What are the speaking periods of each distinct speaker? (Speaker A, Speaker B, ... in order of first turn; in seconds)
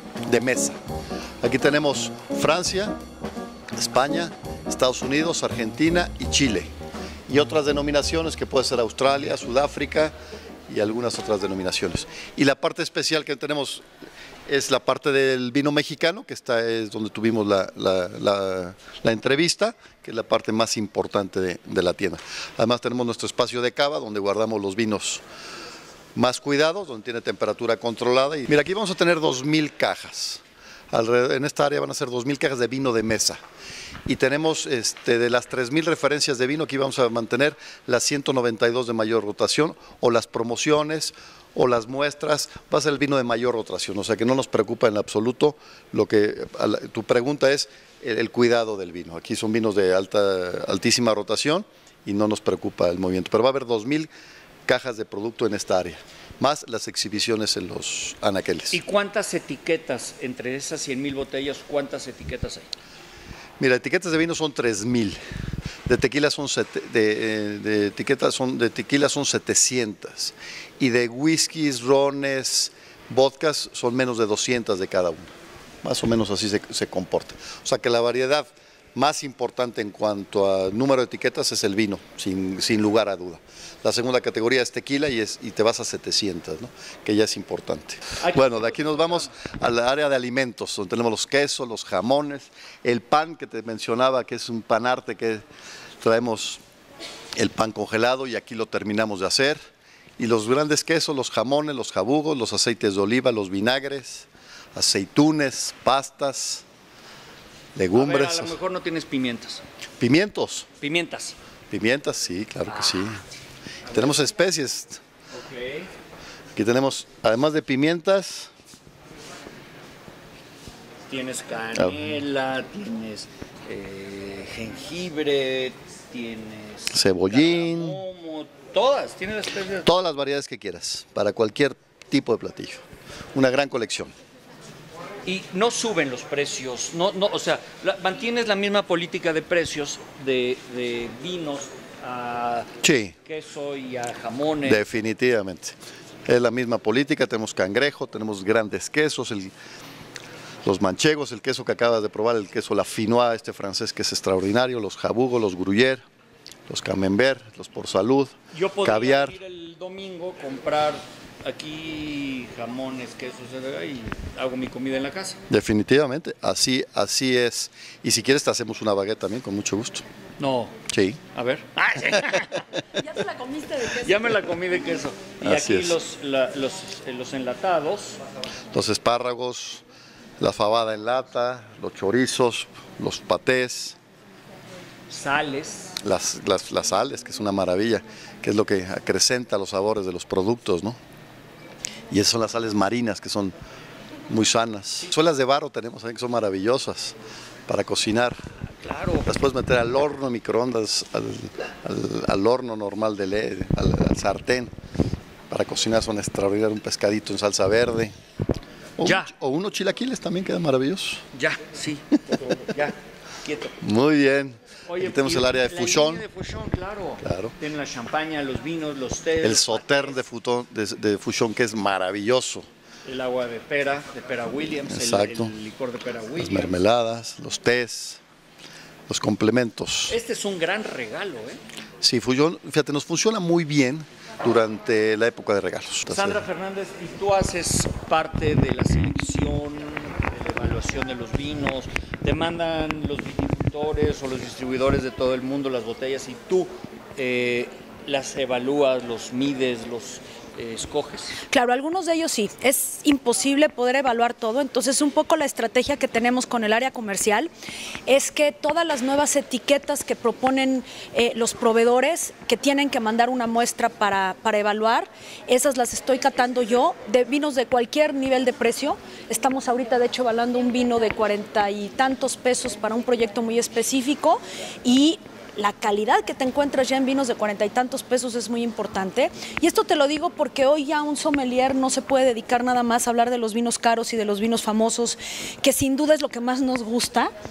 Speaker A: 0.2-0.8, 1.4-3.0, 3.8-6.7, 7.3-10.1, 10.7-13.8, 14.5-25.2, 26.1-33.4, 34.1-54.1, 54.7-58.8, 63.6-65.2, 65.9-75.3, 75.8-95.4, 96.0-96.6, 97.4-99.6, 100.2-106.6, 107.7-108.5, 110.0-110.7, 111.7-113.2, 113.9-115.0, 116.5-118.5, 121.7-122.0, 126.9-128.0, 129.8-134.1, 142.8-143.1, 144.6-149.5, 150.6-156.0, 156.7-159.4, 165.5-170.0, 170.9-171.2, 175.4-176.0, 178.7-179.8, 180.4-183.9, 186.0-191.0, 192.1-193.5, 194.3-197.2, 197.7-198.4, 199.2-204.7, 205.5-208.1, 209.0-211.2, 213.8-216.2, 217.2-217.5, 219.4-222.7, 224.9-225.5, 226.3-228.2, 229.1-230.2, 232.0-236.4
Speaker B: 58.7-62.7, 88.2-89.5, 107.9-109.6, 110.8-111.3, 112.7-113.0, 113.9-114.2, 115.3-115.9, 121.1-129.9, 135.2-142.7, 143.2-144.8, 158.5-165.4, 170.4-170.7, 171.3-172.6, 173.8-178.2, 185.1-186.0, 198.8-199.3, 209.0-209.3, 211.3-213.8, 214.9-220.2, 223.0-226.8, 230.1-231.6, 236.1-251.4
Speaker C: 173.0-174.2, 251.5-257.5, 258.1-287.3